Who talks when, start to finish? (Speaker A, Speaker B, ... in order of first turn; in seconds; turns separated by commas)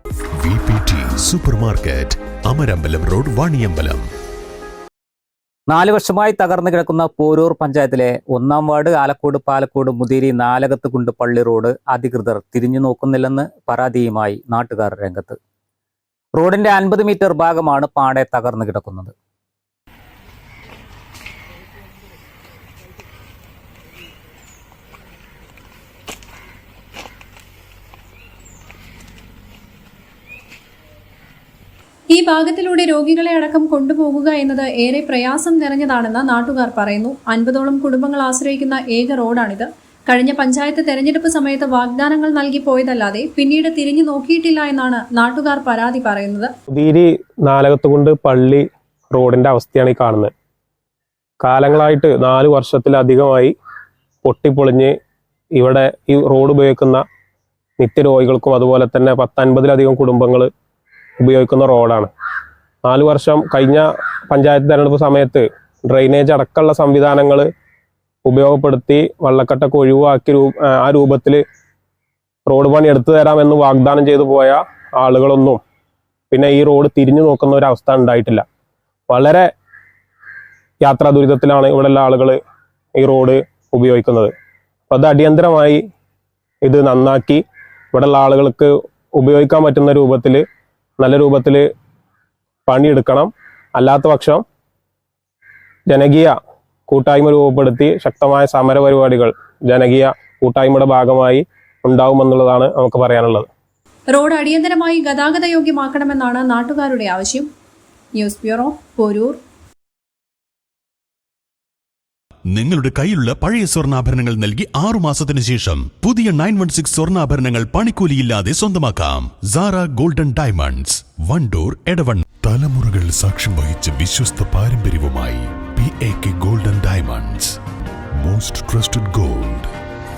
Speaker A: 0.4-4.0, Speaker B: 5.7-15.4, Speaker B: 16.3-19.1, Speaker C: 32.1-46.5, Speaker D: 46.7-50.3, Speaker D: 51.4-53.5, Speaker D: 54.2-54.9, Speaker D: 55.5-57.0, Speaker D: 57.8-60.5, Speaker D: 61.2-62.1, Speaker D: 62.9-67.5, Speaker D: 68.2-71.4, Speaker D: 72.5-75.6, Speaker D: 76.3-78.4, Speaker D: 79.1-79.5, Speaker D: 80.8-82.4, Speaker D: 83.0-84.3, Speaker D: 84.9-85.8, Speaker D: 86.6-90.4, Speaker D: 91.0-91.7, Speaker D: 92.7-94.4, Speaker D: 95.9-96.4, Speaker D: 96.9-103.5, Speaker C: 104.1-107.5, Speaker C: 108.2-109.4, Speaker A: 112.5-127.5, Speaker A: 128.2-129.7